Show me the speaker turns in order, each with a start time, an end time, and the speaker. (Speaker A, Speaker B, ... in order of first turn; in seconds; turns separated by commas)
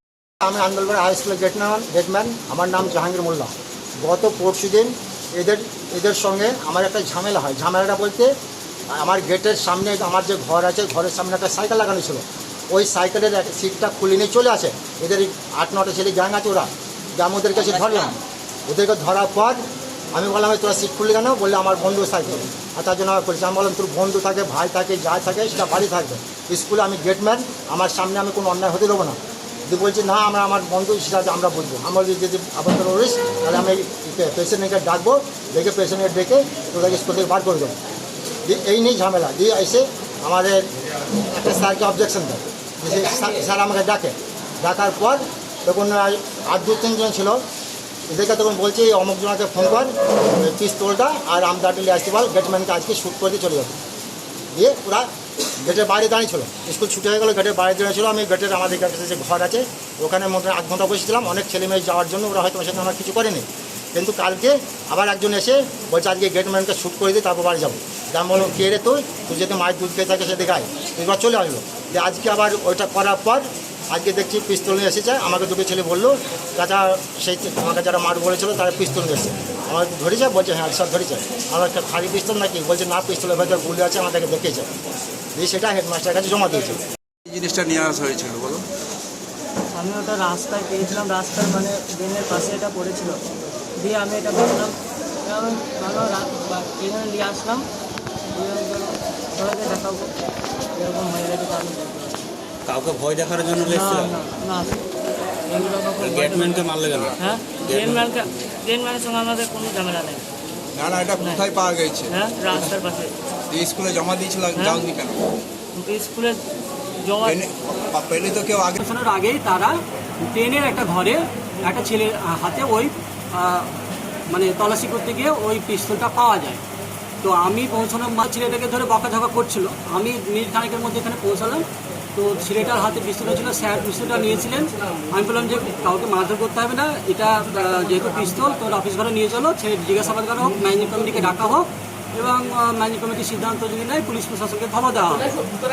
Speaker A: 0.4-3.5, Speaker A: 4.0-8.3, Speaker A: 8.9-19.6, Speaker A: 20.1-29.1, Speaker A: 29.7-37.7, Speaker A: 38.5-40.6, Speaker A: 41.3-47.4, Speaker A: 48.1-53.7, Speaker A: 54.5-55.1, Speaker A: 55.6-84.7, Speaker A: 85.3-86.8, Speaker B: 87.2-88.6, Speaker C: 89.7-93.2, Speaker C: 93.8-97.7, Speaker C: 98.3-100.1, Speaker C: 100.7-102.2, Speaker D: 102.7-104.2, Speaker C: 103.6-104.8, Speaker C: 105.5-106.7, Speaker D: 106.0-108.1, Speaker C: 107.2-110.2, Speaker B: 110.7-112.1, Speaker C: 112.1-113.1, Speaker B: 113.5-115.2, Speaker C: 115.7-116.4, Speaker C: 117.0-117.3, Speaker B: 117.3-118.7, Speaker E: 118.7-123.7, Speaker E: 124.3-126.6, Speaker E: 127.2-145.3